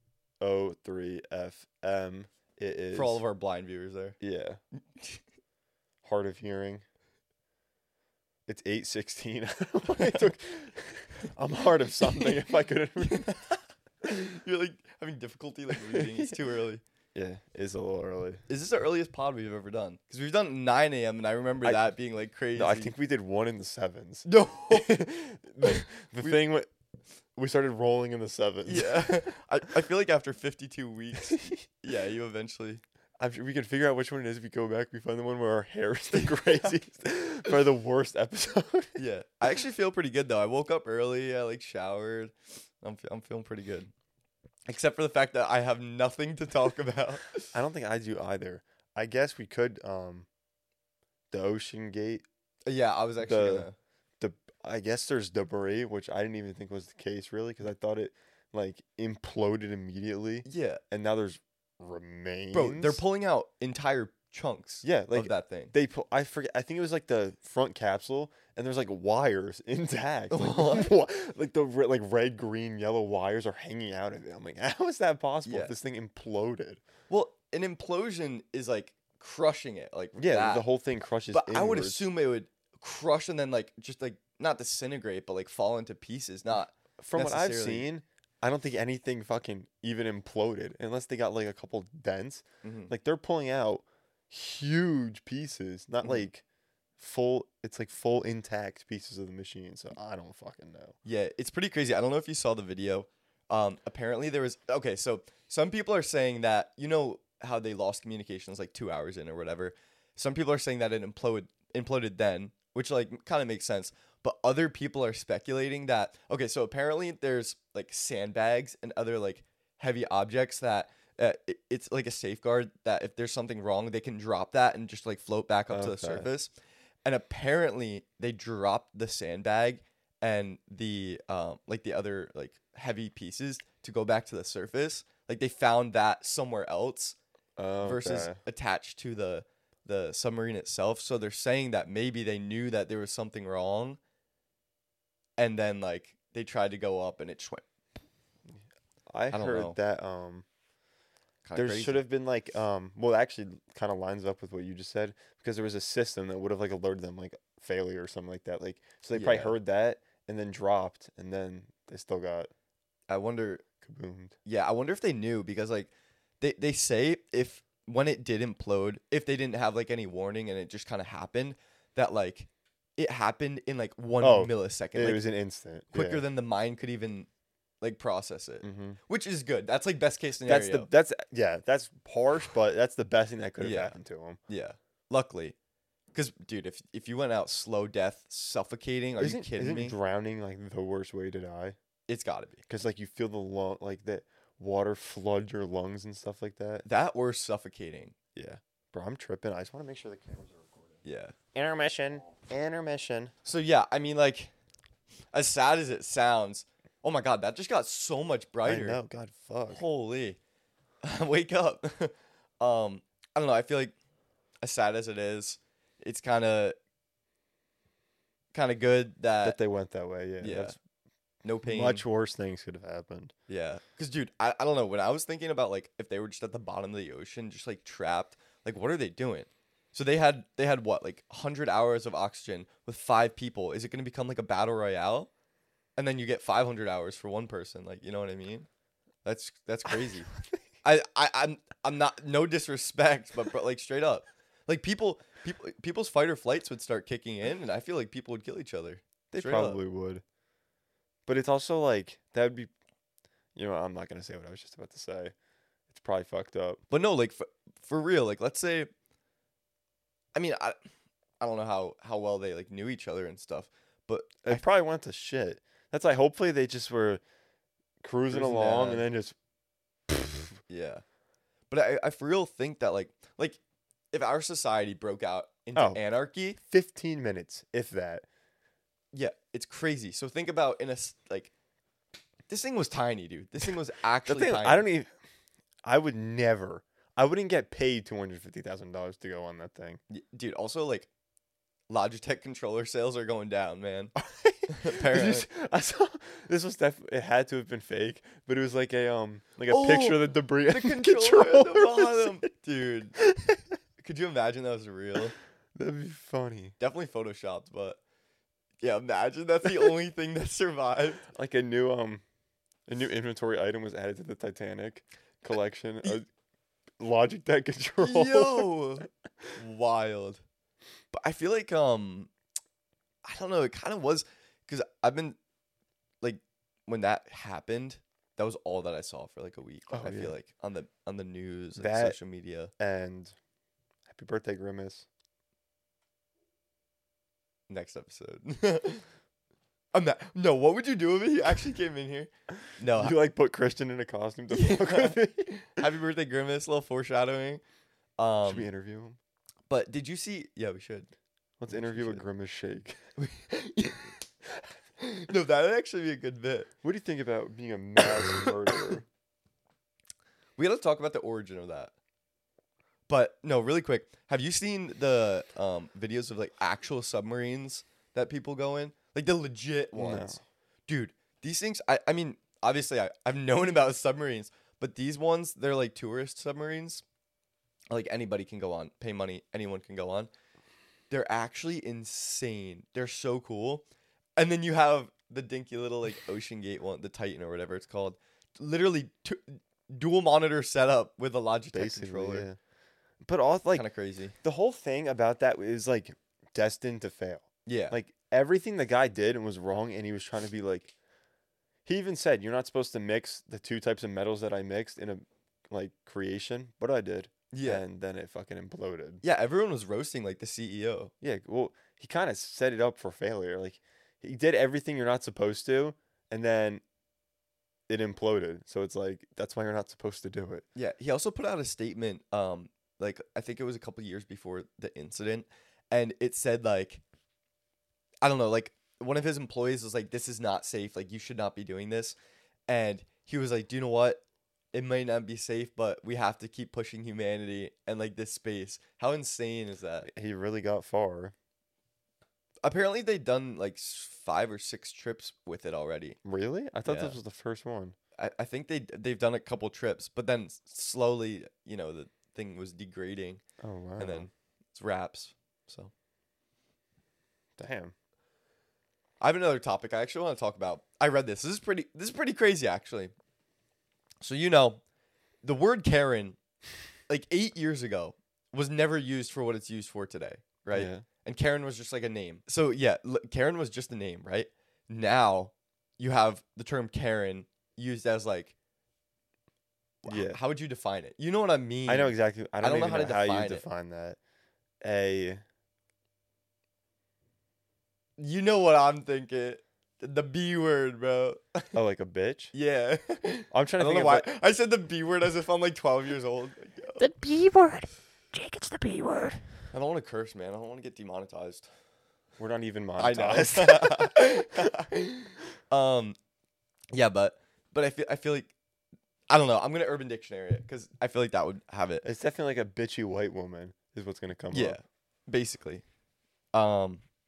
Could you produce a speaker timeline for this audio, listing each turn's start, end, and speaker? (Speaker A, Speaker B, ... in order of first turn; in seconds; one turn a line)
Speaker A: 0.4-3.2
Speaker B: 2.9-4.2
Speaker A: 4.2-4.6
Speaker A: 6.0-6.8
Speaker A: 8.5-13.4
Speaker B: 12.0-12.4
Speaker B: 13.0-13.3
Speaker B: 14.0-16.8
Speaker A: 15.9-16.3
Speaker A: 17.1-18.4
Speaker B: 18.5-22.9
Speaker A: 22.6-26.7
Speaker B: 24.3-25.0
Speaker B: 25.6-26.4
Speaker A: 27.4-29.4
Speaker B: 28.7-32.8
Speaker A: 31.3-31.6
Speaker A: 33.2-39.0
Speaker B: 36.1-36.7
Speaker B: 39.0-43.9
Speaker B: 44.7-47.5
Speaker A: 47.5-50.3
Speaker A: 51.3-52.2
Speaker B: 52.7-53.8
Speaker A: 53.2-53.7
Speaker A: 54.2-63.0
Speaker B: 60.5-60.8
Speaker B: 62.5-65.7
Speaker A: 64.8-76.8
Speaker B: 70.3-70.9
Speaker B: 75.5-75.7
Speaker B: 77.1-80.7
Speaker A: 80.2-82.1
Speaker B: 81.3-87.9
Speaker A: 87.0-96.4
Speaker B: 92.6-92.9
Speaker A: 97.0-101.0
Speaker B: 101.0-126.5
Speaker A: 125.7-126.3
Speaker B: 127.0-137.2
Speaker A: 137.6-138.4
Speaker B: 137.8-144.0
Speaker B: 145.4-147.7
Speaker A: 149.1-150.4
Speaker B: 149.3-149.8
Speaker B: 151.4-152.0
Speaker A: 151.6-162.5
Speaker B: 159.1-159.6
Speaker B: 163.1-163.6
Speaker A: 163.8-164.4
Speaker B: 164.5-175.2
Speaker A: 174.2-176.2
Speaker B: 175.9-177.3
Speaker B: 177.8-180.9
Speaker A: 178.6-179.0
Speaker A: 180.4-184.4
Speaker B: 183.6-183.9
Speaker B: 184.5-185.6
Speaker B: 186.1-189.9
Speaker A: 189.2-191.8
Speaker B: 192.1-192.6
Speaker A: 192.7-196.8
Speaker B: 196.8-198.2
Speaker A: 198.3-200.9
Speaker B: 201.0-201.3
Speaker A: 201.5-203.3
Speaker B: 203.4-204.5
Speaker B: 205.3-209.0
Speaker A: 208.6-209.8
Speaker B: 209.7-210.4
Speaker B: 211.0-213.9
Speaker B: 214.6-216.8
Speaker B: 218.5-219.6
Speaker A: 219.4-220.8
Speaker B: 220.4-220.8
Speaker B: 221.4-222.0
Speaker A: 221.6-223.3
Speaker B: 223.5-235.3
Speaker B: 236.0-238.7
Speaker B: 239.2-240.3
Speaker B: 240.8-249.8
Speaker A: 249.3-250.2
Speaker A: 251.3-252.7
Speaker A: 253.6-255.3
Speaker A: 255.9-256.8
Speaker B: 256.9-258.9
Speaker B: 260.4-260.8
Speaker B: 261.4-264.6
Speaker A: 264.4-267.2
Speaker A: 268.0-269.4
Speaker B: 268.3-269.1
Speaker A: 270.1-270.6
Speaker B: 270.7-271.0
Speaker B: 271.7-273.6
Speaker B: 274.1-276.6
Speaker A: 275.7-276.0
Speaker A: 276.6-278.2
Speaker B: 279.1-281.5
Speaker B: 282.5-284.9
Speaker A: 284.3-285.1
Speaker A: 285.9-290.0
Speaker B: 290.1-291.1
Speaker B: 291.9-294.1
Speaker A: 294.2-302.5
Speaker B: 294.7-295.5
Speaker B: 299.7-303.1
Speaker A: 303.2-303.6
Speaker B: 304.0-305.4
Speaker A: 305.8-306.8
Speaker B: 306.8-308.0
Speaker B: 308.8-311.2
Speaker A: 311.3-312.2
Speaker A: 312.9-316.3
Speaker A: 317.0-318.7
Speaker B: 318.0-320.4
Speaker B: 321.1-322.3
Speaker B: 323.2-325.4
Speaker B: 326.2-332.7
Speaker A: 329.9-330.4
Speaker A: 331.8-332.2
Speaker A: 332.8-333.4
Speaker A: 334.1-335.1
Speaker B: 337.7-339.1
Speaker B: 339.9-343.2
Speaker A: 342.9-345.8
Speaker B: 344.5-347.6
Speaker B: 348.2-348.7
Speaker A: 348.4-349.2
Speaker B: 349.7-351.1
Speaker A: 351.6-353.0
Speaker B: 351.7-352.2
Speaker B: 353.2-354.1
Speaker B: 355.0-356.7
Speaker A: 356.8-359.1
Speaker B: 360.6-361.9
Speaker B: 363.1-377.0
Speaker A: 370.0-370.4
Speaker B: 377.9-380.3
Speaker B: 381.1-383.9
Speaker B: 384.4-392.5
Speaker A: 391.7-392.6
Speaker A: 393.2-393.9
Speaker B: 393.7-394.4
Speaker A: 394.4-400.9
Speaker B: 397.7-398.0
Speaker A: 401.9-409.2
Speaker B: 407.5-407.8
Speaker B: 409.2-411.1
Speaker A: 411.2-416.8
Speaker A: 417.9-420.7
Speaker B: 420.8-427.0
Speaker B: 428.2-432.2
Speaker B: 432.7-440.1
Speaker A: 440.0-441.3
Speaker B: 442.6-446.2
Speaker A: 446.2-447.9
Speaker B: 446.9-447.2
Speaker B: 448.2-453.4
Speaker A: 453.6-454.3
Speaker B: 454.0-455.9
Speaker A: 457.6-457.9
Speaker B: 459.2-463.1
Speaker B: 464.2-464.8
Speaker B: 465.4-466.4
Speaker B: 467.1-478.5
Speaker A: 470.7-471.1
Speaker B: 480.0-483.6
Speaker A: 480.1-480.4
Speaker A: 481.9-484.2
Speaker A: 484.8-485.4
Speaker B: 488.2-491.7
Speaker A: 491.7-492.5
Speaker B: 492.5-497.1
Speaker A: 493.5-494.3
Speaker C: 497.0-499.4
Speaker B: 499.7-501.7
Speaker A: 502.4-504.7
Speaker B: 503.0-506.2
Speaker B: 506.9-508.5
Speaker B: 509.3-512.0
Speaker A: 512.0-514.8
Speaker B: 514.5-515.8
Speaker B: 516.5-517.0